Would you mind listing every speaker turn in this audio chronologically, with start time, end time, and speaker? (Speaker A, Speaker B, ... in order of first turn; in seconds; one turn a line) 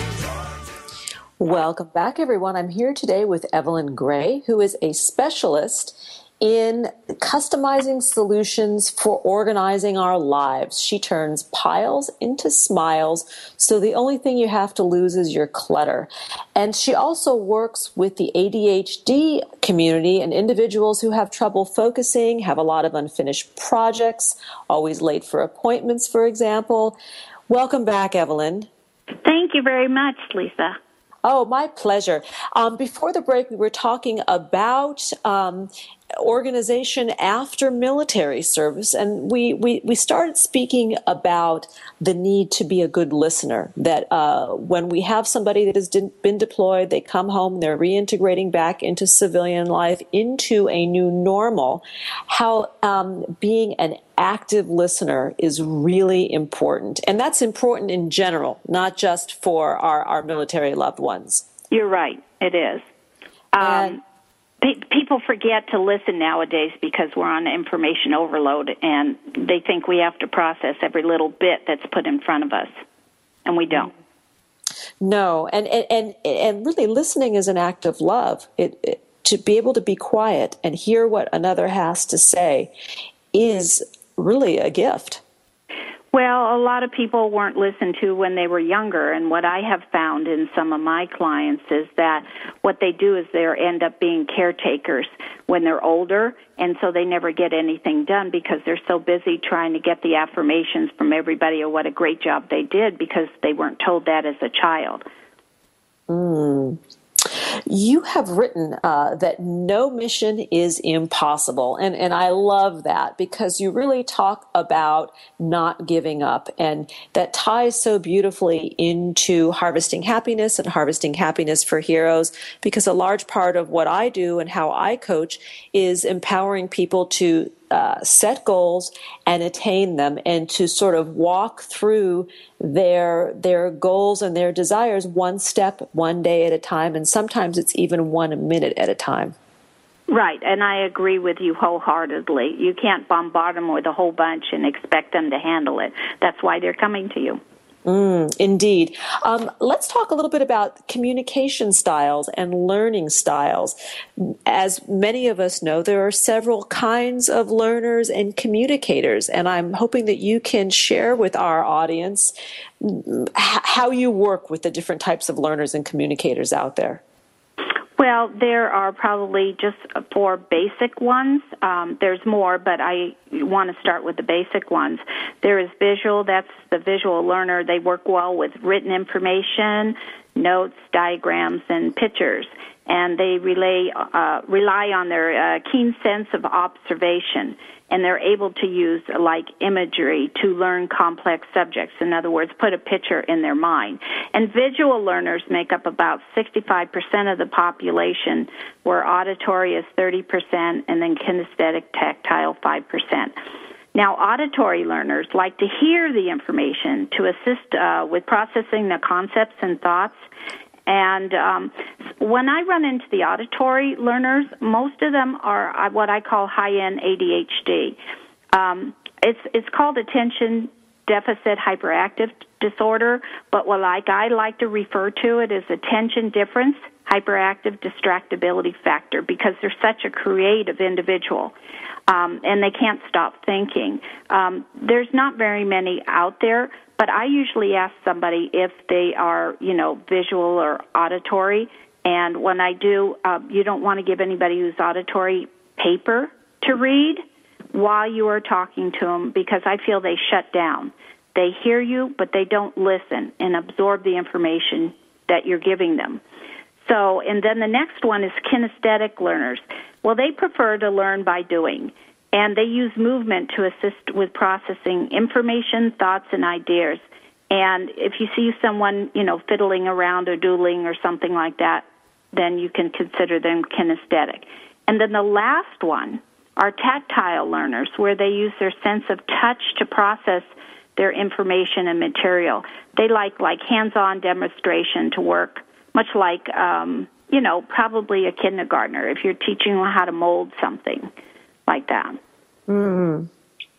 Speaker A: 1.4-27.0
Speaker A: 27.5-28.7
Speaker B: 29.2-30.8
Speaker A: 31.2-61.5
Speaker B: 61.7-62.9
Speaker B: 63.5-64.0
Speaker A: 63.6-64.0
Speaker B: 64.6-72.7
Speaker B: 73.5-73.9
Speaker A: 75.0-82.7
Speaker A: 83.3-85.2
Speaker B: 86.1-105.0
Speaker A: 106.1-139.3
Speaker B: 140.1-147.4
Speaker A: 147.8-167.0
Speaker B: 168.0-203.3
Speaker B: 203.9-210.2
Speaker B: 210.9-218.0
Speaker B: 218.5-231.5
Speaker B: 232.1-256.2
Speaker B: 256.8-291.1
Speaker B: 291.7-292.2
Speaker A: 292.7-293.3